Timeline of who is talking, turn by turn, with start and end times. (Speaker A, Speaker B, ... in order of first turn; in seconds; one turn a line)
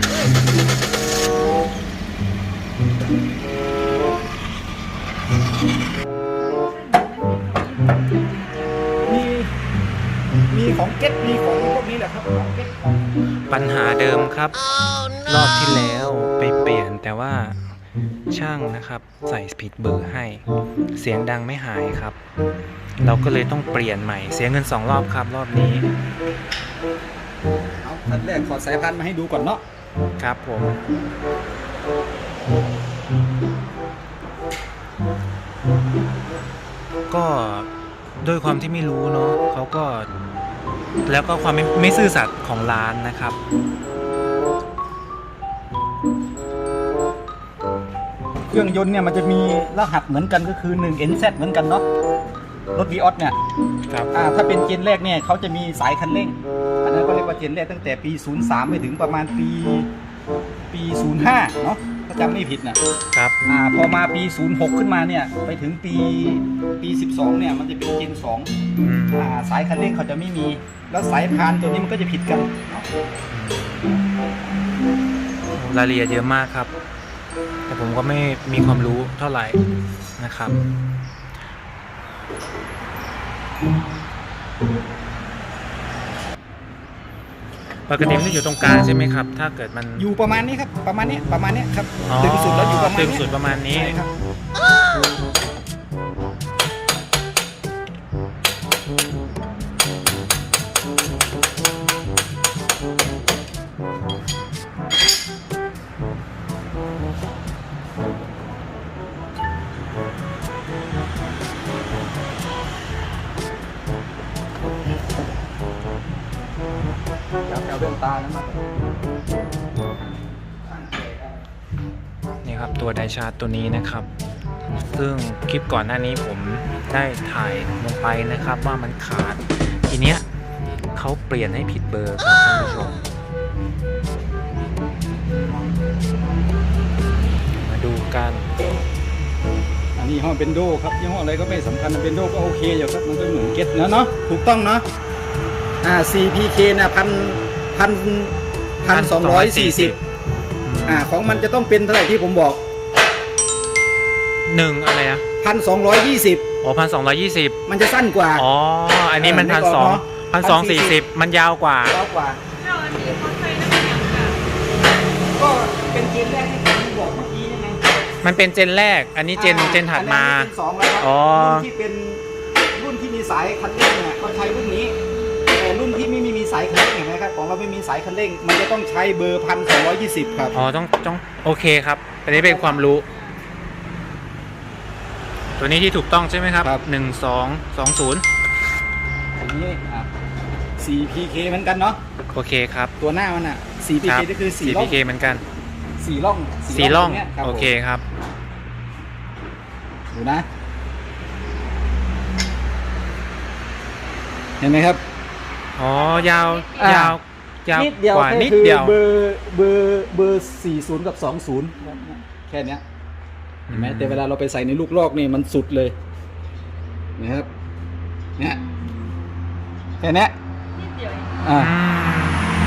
Speaker A: 6.5-8.7
Speaker B: 9.1-9.5
Speaker B: 10.5-12.8
Speaker C: 13.5-14.6
Speaker C: 15.2-17.6
Speaker C: 18.3-20.4
Speaker C: 20.9-22.2
Speaker C: 23.0-25.9
Speaker B: 27.8-29.6
Speaker C: 30.2-30.8
Speaker C: 37.1-37.7
Speaker C: 38.2-40.1
Speaker C: 41.0-43.4
Speaker B: 48.5-51.8
Speaker B: 52.7-53.4
Speaker B: 54.1-59.9
Speaker B: 60.7-62.8
Speaker B: 63.5-68.5
Speaker C: 68.8-69.3
Speaker B: 69.1-72.8
Speaker C: 73.5-73.8
Speaker C: 75.5-76.7
Speaker C: 77.7-79.6
Speaker C: 80.2-80.6
Speaker C: 87.9-90.1
Speaker B: 90.0-94.1
Speaker C: 92.1-94.0
Speaker B: 117.5-118.7
Speaker B: 119.9-121.4
Speaker C: 122.4-124.1
Speaker C: 124.9-130.2
Speaker C: 130.9-133.0
Speaker C: 137.5-138.5
Speaker B: 139.9-144.8
Speaker B: 145.8-150.0
Speaker C: 148.9-150.0
Speaker C: 150.6-151.1
Speaker B: 150.8-152.6
Speaker C: 154.4-155.2
Speaker B: 155.4-156.4
Speaker C: 156.6-157.6
Speaker B: 157.7-158.4
Speaker C: 158.3-162.0
Speaker B: 159.2-161.0
Speaker B: 161.9-162.4
Speaker A: 162.6-164.4
Speaker B: 165.3-167.8
Speaker C: 168.2-171.7
Speaker B: 169.3-175.0
Speaker B: 175.5-180.6
Speaker C: 180.5-183.1
Speaker B: 182.3-182.9
Speaker C: 185.6-188.2
Speaker B: 189.3-190.1
Speaker B: 190.8-192.0
Speaker C: 192.3-192.9
Speaker B: 193.0-195.0
Speaker C: 194.0-195.4
Speaker B: 196.0-197.7
Speaker C: 196.7-198.0
Speaker B: 200.1-200.4
Speaker B: 204.6-205.0
Speaker C: 205.8-209.0
Speaker A: 206.1-207.0
Speaker B: 206.8-207.2
Speaker B: 207.7-212.8
Speaker C: 213.7-214.2
Speaker B: 213.7-215.9
Speaker B: 217.2-217.5
Speaker B: 220.0-220.3
Speaker A: 220.8-221.4
Speaker B: 221.4-221.7
Speaker C: 221.5-222.4